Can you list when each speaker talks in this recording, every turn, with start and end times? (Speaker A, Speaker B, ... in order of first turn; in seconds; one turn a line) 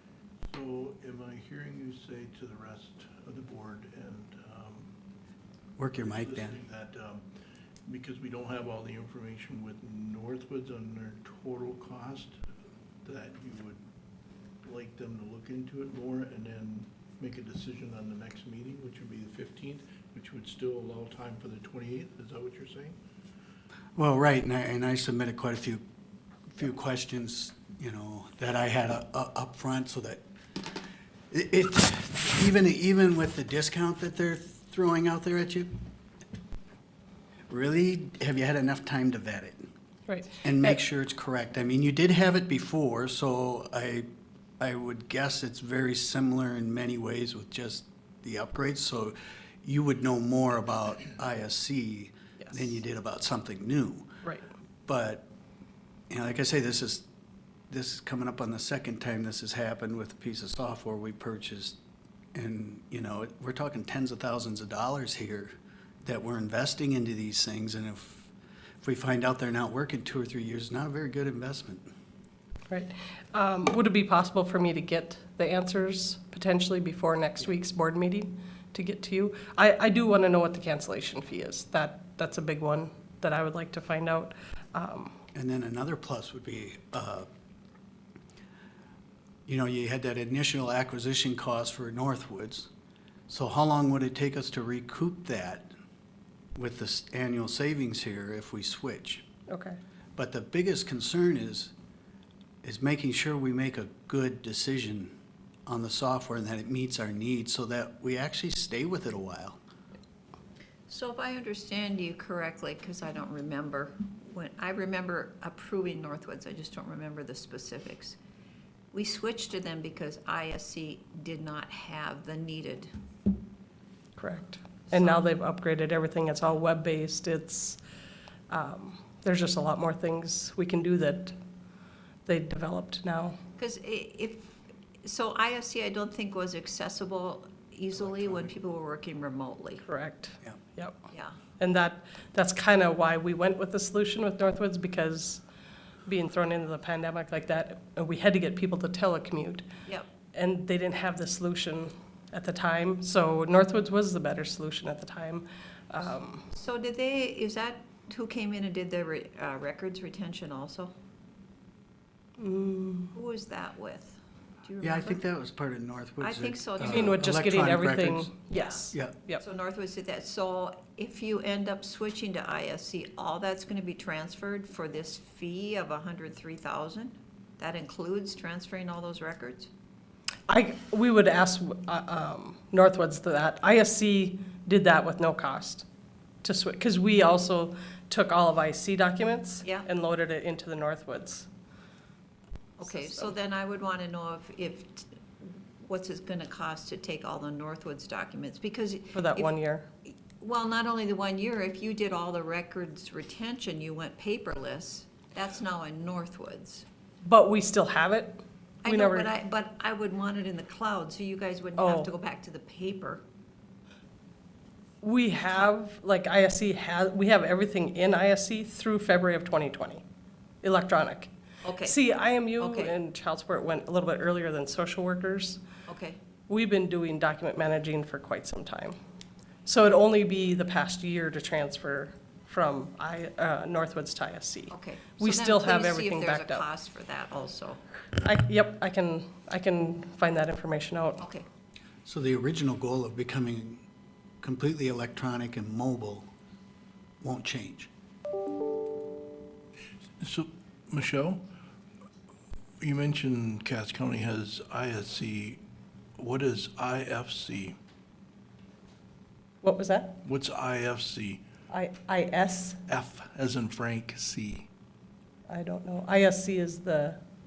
Speaker A: 0.4-4.9
Speaker B: 5.8-6.6
Speaker A: 5.9-7.2
Speaker A: 7.8-12.3
Speaker A: 13.0-13.8
Speaker A: 14.6-22.9
Speaker B: 24.0-25.8
Speaker B: 26.5-30.2
Speaker B: 31.3-35.7
Speaker B: 37.5-39.7
Speaker C: 40.1-40.8
Speaker B: 40.4-44.1
Speaker B: 44.6-54.1
Speaker B: 54.9-55.2
Speaker B: 56.1-57.0
Speaker B: 57.7-61.8
Speaker B: 62.3-71.9
Speaker C: 72.7-85.1
Speaker B: 85.3-87.3
Speaker B: 89.5-92.7
Speaker B: 93.3-95.7
Speaker B: 96.5-99.2
Speaker C: 99.5-99.8
Speaker B: 100.2-101.7
Speaker B: 102.6-105.1
Speaker B: 105.7-109.6
Speaker D: 110.9-118.2
Speaker D: 118.9-122.9
Speaker C: 124.2-127.8
Speaker D: 124.9-125.2
Speaker C: 128.5-131.3
Speaker C: 132.2-133.4
Speaker D: 133.6-139.8
Speaker C: 139.8-140.9
Speaker D: 141.1-141.3
Speaker C: 141.6-145.4
Speaker C: 146.1-149.7
Speaker C: 150.3-156.4
Speaker D: 156.5-160.9
Speaker C: 162.4-163.1
Speaker D: 163.1-165.2
Speaker B: 164.8-168.3
Speaker D: 166.2-167.7
Speaker C: 166.8-169.4
Speaker D: 168.5-179.7
Speaker C: 180.5-185.8
Speaker C: 186.4-191.5
Speaker D: 189.6-189.9
Speaker D: 192.8-206.8
Speaker C: 192.9-193.3
Speaker C: 199.1-199.9
Speaker C: 207.2-209.3
Speaker D: 208.8-213.2
Speaker C: 211.8-212.1
Speaker C: 215.0-220.0
Speaker C: 220.6-221.3
Speaker D: 221.6-222.0
Speaker C: 221.8-225.6
Speaker D: 222.6-222.9
Speaker D: 225.8-226.2
Speaker C: 226.5-228.9
Speaker C: 229.7-236.7
Speaker D: 234.7-237.8
Speaker C: 238.2-241.2
Speaker D: 241.2-241.4
Speaker B: 242.1-243.8
Speaker B: 244.4-246.3
Speaker B: 247.2-247.9
Speaker A: 250.2-251.4
Speaker A: 252.8-255.6
Speaker A: 256.2-257.8
Speaker C: 259.6-260.2
Speaker A: 260.2-261.4
Speaker C: 261.7-262.8
Speaker A: 262.9-264.7
Speaker C: 265.5-267.2